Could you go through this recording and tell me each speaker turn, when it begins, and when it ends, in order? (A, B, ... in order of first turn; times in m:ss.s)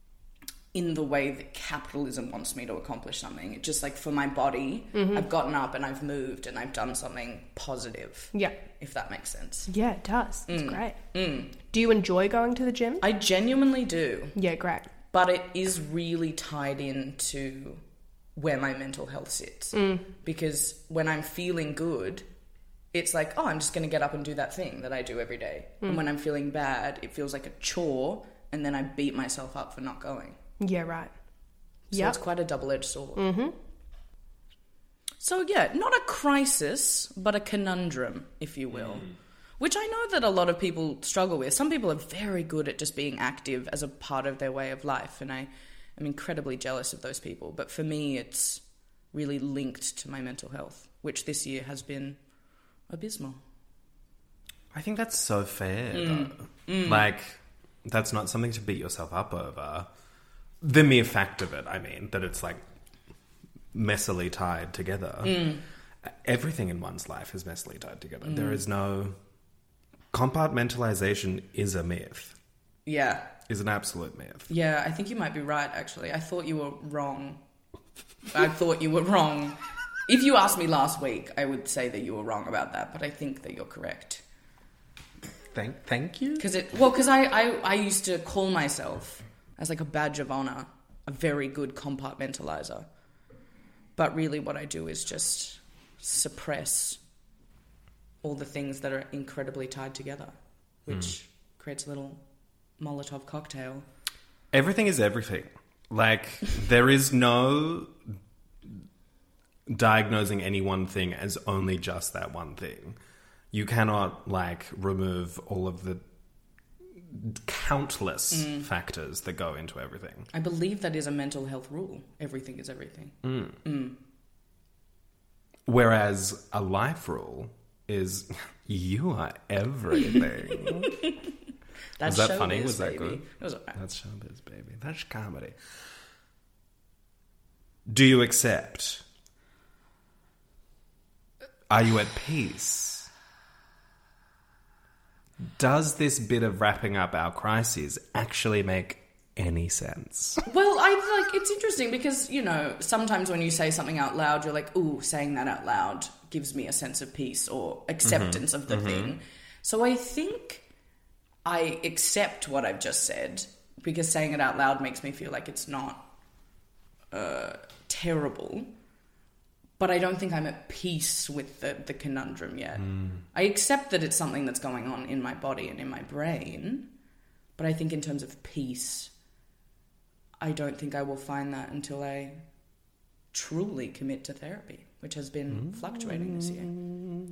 0:00.7-0:09.7 A
0:04.9-0:05.2 B
0:09.7-0:11.0 B
0:10.5-0:11.5 A
0:11.6-0:13.0 B
0:13.0-0:14.4 A
0:14.3-0:14.9 B
0:15.1-0:17.8 A
0:18.4-0:22.2 A
0:19.7-0:20.0 B
0:22.9-0:30.4 A
0:30.6-0:31.1 B
0:31.9-0:33.2 A
0:31.9-0:32.2 B
0:33.2-0:33.5 B
0:35.2-0:52.2 A
0:52.9-0:53.4 A
0:54.7-0:59.9 C
0:55.9-0:57.1 A
1:00.6-1:02.6 C
1:03.7-1:05.4 C
1:05.2-1:05.6 A
1:06.0-1:09.2 C
1:08.2-1:08.6 A
1:10.1-1:12.4 C
1:12.8-1:13.3 A
1:13.5-1:14.5 C
1:14.5-1:17.4 A
1:18.3-1:19.6 A
1:20.1-1:24.2 A
1:25.5-1:26.4 C
1:26.4-1:32.8 A
1:34.0-1:37.0 A
1:38.2-1:40.3 A
1:40.8-1:42.2 A
1:42.8-1:43.8 A
1:44.5-1:48.0 C
1:49.7-1:53.0 C
1:53.5-1:56.0 C
1:57.1-2:00.3 C
1:58.3-1:58.6 A
2:00.3-2:04.0 A
2:03.2-2:03.6 C
2:05.6-2:10.9 C
2:12.0-2:13.8 A
2:12.0-2:13.2 C
2:13.7-2:15.6 C
2:17.9-2:19.0 C
2:21.7-2:23.1 C
2:25.6-2:30.4 C
2:30.4-2:40.6 A
2:38.0-2:39.2 C
2:41.4-2:46.1 A
2:47.1-2:48.7 A
2:49.8-2:56.9 A
2:57.6-2:59.1 A
3:00.4-3:02.4 A
3:03.3-3:06.8 A
3:05.6-3:07.2 C